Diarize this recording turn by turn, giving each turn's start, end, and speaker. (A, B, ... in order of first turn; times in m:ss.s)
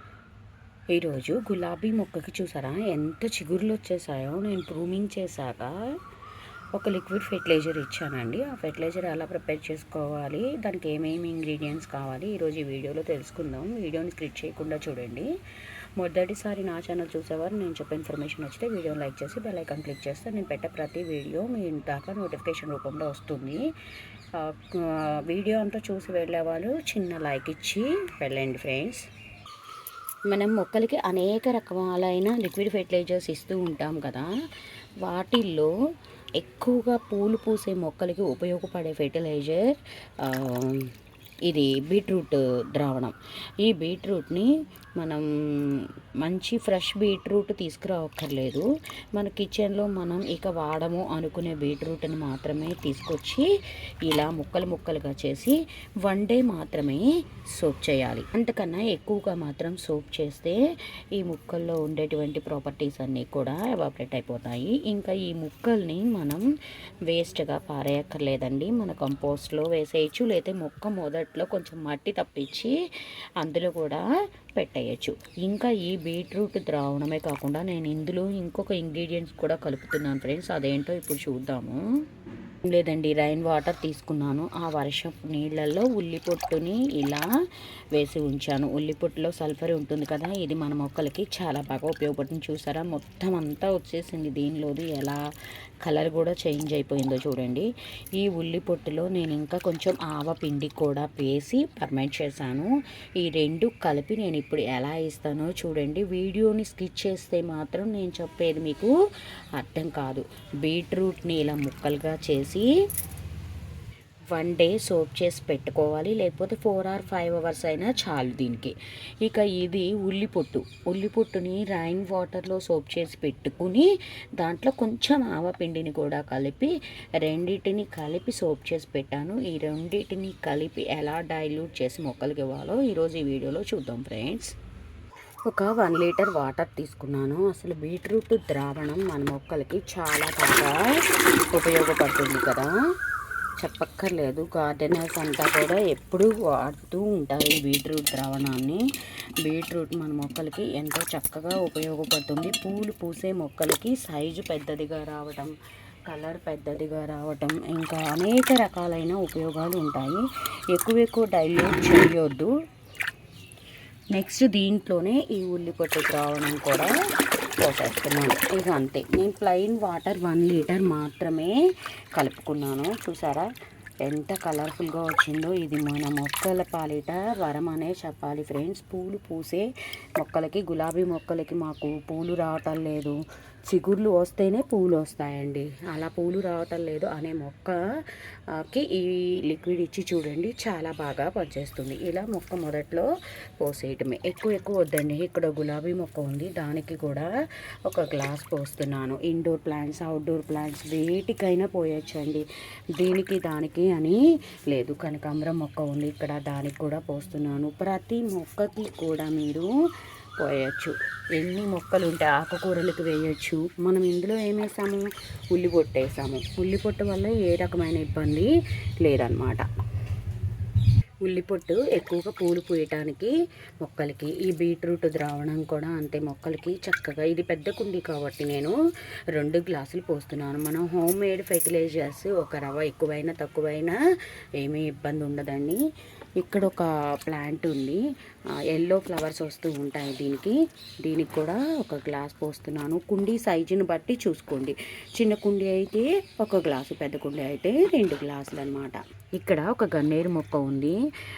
0:00.9-0:05.7 A
0:06.8-0:15.3 A
0:16.0-0:23.6 A
0:24.4-0:29.0 A
0:30.3-0:34.3 A
0:35.0-0:35.7 A
0:36.4-0:39.6 A
0:40.2-0:40.9 A
0:41.5-0:53.4 A
0:54.0-0:57.0 A
0:57.5-1:00.6 A
1:01.1-1:06.4 A
1:07.1-1:12.7 A
1:13.4-1:14.0 A
1:14.6-1:21.8 A
1:22.6-1:27.2 A
1:27.9-1:35.2 A
1:35.8-1:48.9 A
1:49.6-1:52.7 A
1:54.3-2:14.5 A
2:15.5-2:20.7 A
2:21.5-2:22.7 A
2:23.6-2:28.8 A
2:29.4-2:35.5 A
2:36.1-2:42.5 A
2:44.1-2:46.9 A
2:47.6-2:51.5 A
2:52.2-2:53.5 A
2:54.0-2:59.6 A
3:00.2-3:03.2 A
3:03.7-3:07.8 A
3:08.6-3:13.1 A
3:13.6-3:17.3 A
3:17.9-3:22.4 A
3:23.0-3:24.2 A
3:24.7-3:29.7 A
3:30.4-3:38.5 A
3:39.0-3:39.6 A
3:41.2-3:48.7 A
3:49.3-3:54.0 A
3:54.6-3:55.8 A
3:56.4-3:58.0 A
3:58.7-4:11.0 A